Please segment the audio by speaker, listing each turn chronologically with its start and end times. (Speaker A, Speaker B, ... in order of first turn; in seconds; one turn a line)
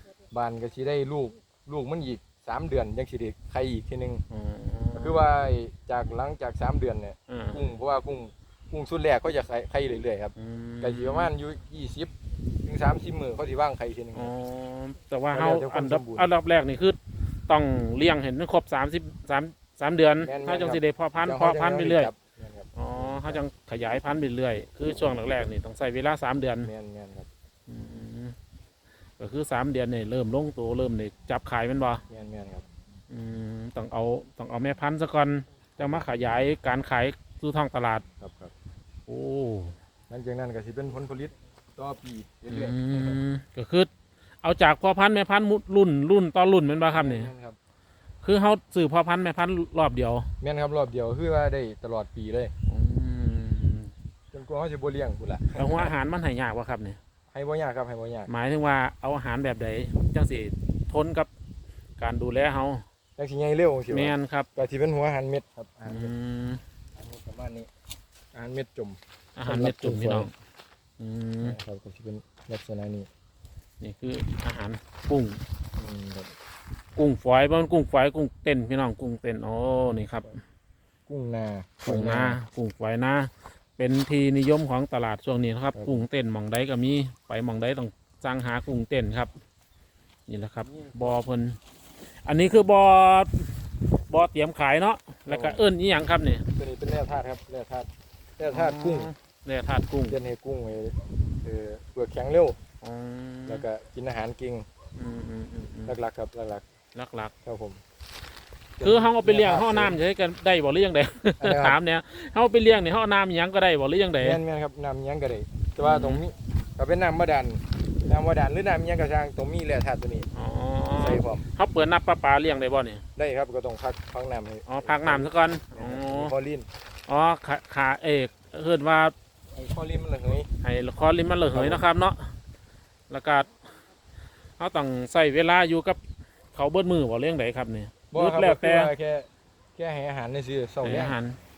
Speaker A: 0.3-4.2
Speaker B: 4.3-5.2
Speaker A: 4.9-12.1
Speaker B: 7.3-7.6
Speaker B: 10.3-11.3
Speaker A: 12.6-14.3
Speaker B: 14.1-22.1
Speaker A: 15.3-16.3
Speaker A: 20.2-23.4
Speaker B: 22.7-26.7
Speaker A: 26.6-27.3
Speaker B: 27.7-28.3
Speaker B: 29.2-32.0
Speaker A: 32.1-32.6
Speaker B: 33.1-38.0
Speaker A: 38.2-38.5
Speaker B: 39.1-39.8
Speaker A: 40.1-43.2
Speaker B: 42.5-43.9
Speaker B: 44.4-47.3
Speaker A: 46.9-47.6
Speaker B: 48.2-50.3
Speaker A: 50.4-52.5
Speaker B: 52.7-53.9
Speaker A: 54.3-55.9
Speaker B: 55.5-57.0
Speaker A: 57.3-58.3
Speaker B: 58.3-61.3
Speaker B: 62.0-62.8
Speaker A: 63.2-66.1
Speaker B: 63.9-64.5
Speaker B: 65.8-66.6
Speaker A: 67.0-67.7
Speaker A: 68.3-70.3
Speaker B: 69.3-70.3
Speaker B: 71.0-71.6
Speaker A: 71.4-73.1
Speaker B: 73.8-75.4
Speaker A: 75.8-76.3
Speaker B: 77.0-80.3
Speaker A: 81.1-82.4
Speaker B: 81.8-89.3
Speaker A: 85.7-86.0
Speaker B: 90.3-91.6
Speaker A: 90.6-91.2
Speaker B: 92.2-93.6
Speaker B: 94.1-96.5
Speaker A: 95.3-95.6
Speaker A: 96.5-99.1
Speaker B: 98.4-100.2
Speaker A: 100.1-102.6
Speaker B: 102.8-103.6
Speaker A: 103.5-104.7
Speaker B: 105.0-105.9
Speaker A: 105.8-106.6
Speaker B: 106.9-107.3
Speaker A: 107.4-107.8
Speaker A: 108.8-110.0
Speaker B: 108.8-114.4
Speaker A: 111.4-111.8
Speaker A: 114.2-120.3
Speaker B: 115.8-116.2
Speaker B: 120.3-123.0
Speaker A: 121.0-121.4
Speaker A: 123.2-126.7
Speaker B: 124.7-126.3
Speaker B: 127.1-129.1
Speaker A: 129.5-130.5
Speaker B: 130.6-132.3
Speaker A: 131.5-131.8
Speaker B: 133.1-133.6
Speaker B: 134.6-136.0
Speaker B: 136.5-138.9
Speaker A: 138.1-141.2
Speaker B: 140.8-141.4